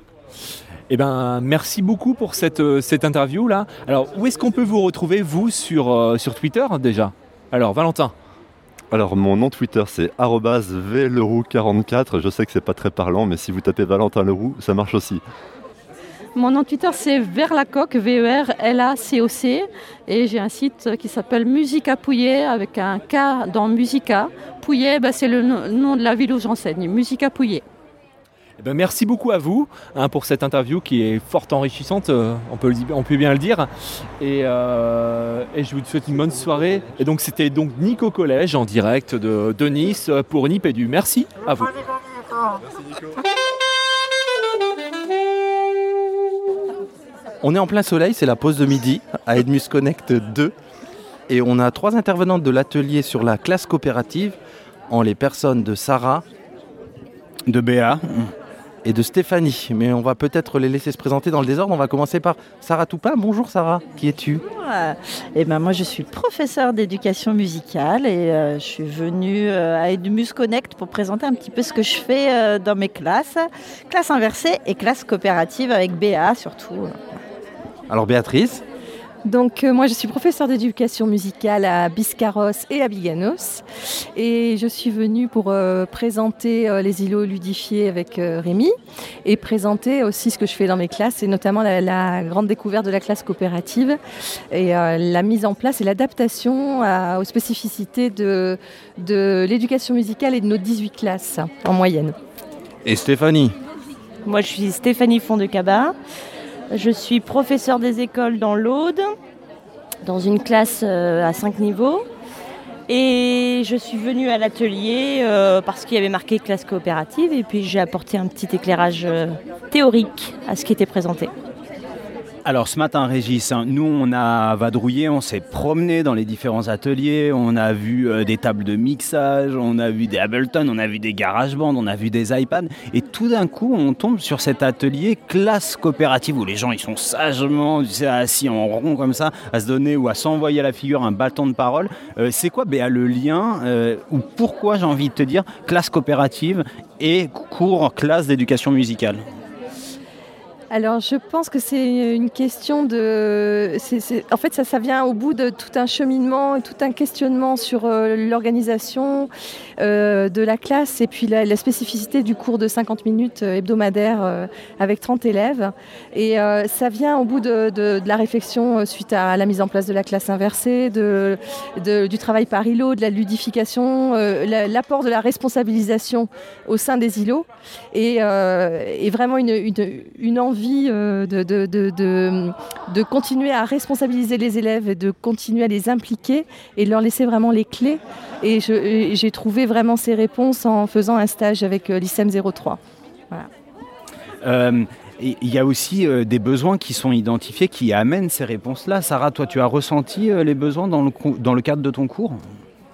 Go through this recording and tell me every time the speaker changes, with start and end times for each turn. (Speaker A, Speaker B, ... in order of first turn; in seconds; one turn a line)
Speaker A: 0.9-8.1
Speaker B: 8.9-15.2
Speaker C: 16.4-27.6
Speaker A: 28.6-41.7
Speaker D: 47.4-50.5
Speaker D: 51.3-54.4
Speaker D: 54.9-56.2
Speaker E: 57.5-58.3
Speaker D: 58.8-64.4
Speaker F: 64.6-77.0
Speaker D: 77.9-78.6
Speaker G: 79.2-83.6
Speaker G: 84.1-94.0
Speaker G: 94.5-102.2
Speaker D: 102.8-103.6
Speaker H: 104.2-106.0
Speaker H: 106.7-109.1
Speaker H: 110.0-112.1
Speaker H: 112.9-121.3
Speaker E: 122.5-149.2
Speaker G: 150.7-192.8
Speaker E: 194.4-202.4